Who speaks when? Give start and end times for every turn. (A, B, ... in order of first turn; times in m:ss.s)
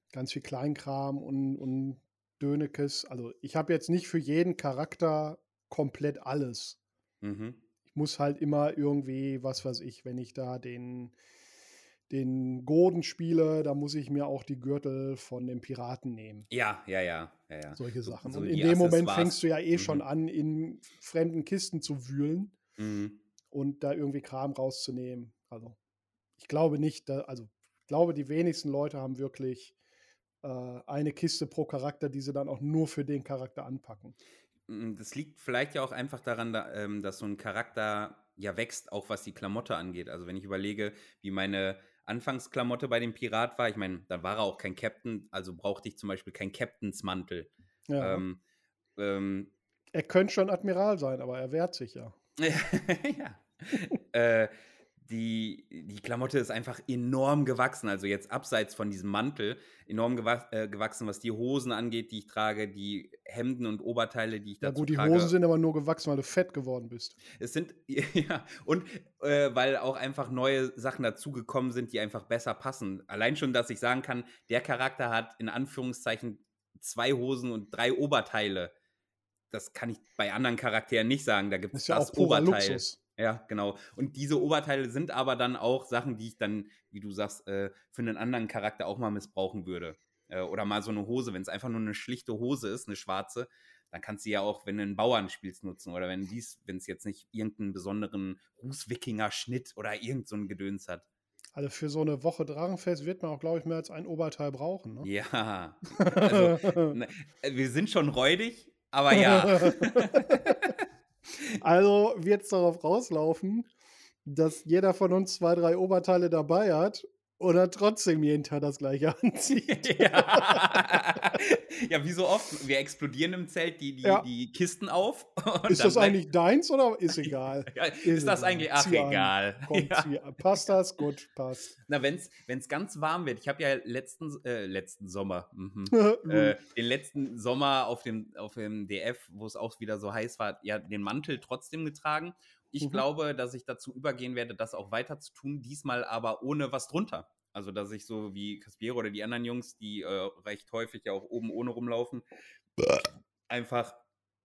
0:00.1-0:06.8 A
0:07.2-0:07.6 B
0:07.9-0:11.2 A
0:12.1-0:16.5 A
0:16.5-0:20.0 B
0:17.7-0:22.5 A
0:22.8-0:23.2 B
0:23.5-0:25.8 A
0:26.4-0:29.7 A
0:30.4-0:34.1 A
0:34.7-0:48.4 B
0:47.9-0:48.2 A
0:49.0-0:49.5 B
0:49.9-0:52.1 A
0:52.4-1:05.3 B
1:04.6-1:07.2 A
1:07.3-1:18.7 B
1:19.5-1:41.0 B
1:21.7-1:23.0 A
1:41.5-1:45.1 A
1:45.0-1:50.7 B
1:45.9-1:47.0 A
1:49.1-1:50.7 A
1:51.6-1:53.7 A
1:54.2-2:01.4 A
1:59.7-2:06.2 B
2:05.7-2:11.7 A
2:07.2-2:10.1 B
2:11.8-2:32.2 B
2:15.9-2:16.6 A
2:32.8-2:34.0 B